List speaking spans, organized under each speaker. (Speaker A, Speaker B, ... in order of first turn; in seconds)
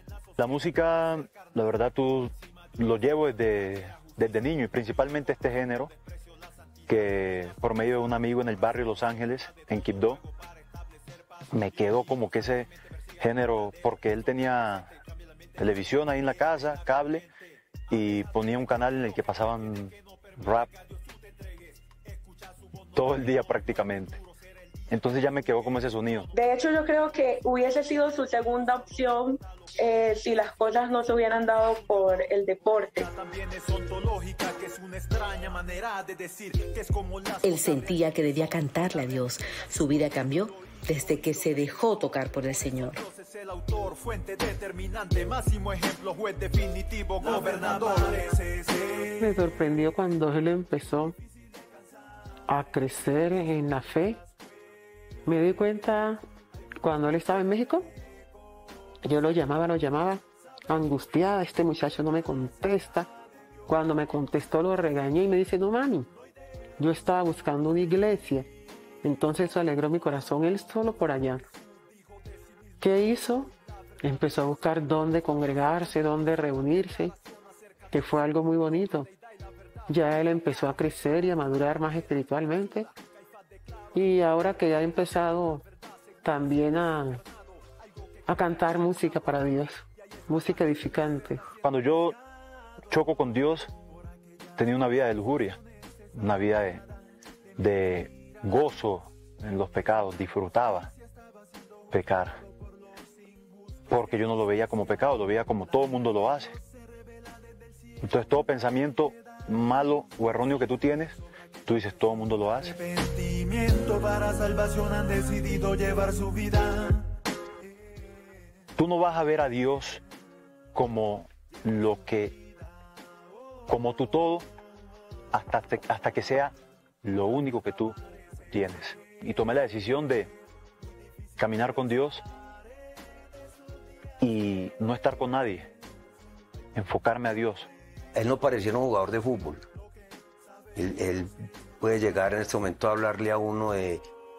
Speaker A: 0.4-5.9, 6.9-10.2, 11.5-14.9, 15.6-17.3, 17.9-20.7, 22.9-24.2, 24.9-26.3, 91.6-92.2, 92.9-93.7, 94.6-95.6, 96.1-96.8, 97.6-100.9, 101.9-102.4, 103.9-106.6, 108.0-112.8, 118.8-120.0, 120.8-122.3, 123.7-124.5, 125.3-128.0, 128.5-130.3, 131.4-132.2, 134.2-135.7, 136.8-137.7
Speaker B: 26.3-33.1
Speaker C: 33.0-37.8, 43.0-49.2, 112.7-117.1
Speaker D: 37.4-43.0
Speaker E: 49.2-51.1, 52.5-54.2, 55.3-56.2, 56.8-57.9, 59.0-63.1, 63.7-66.1, 66.8-68.5, 69.0-71.4, 72.8-77.1, 77.9-79.1, 79.9-82.9, 83.9-85.6, 86.2-87.2, 88.3-91.4
Speaker F: 138.2-139.6, 140.8-144.0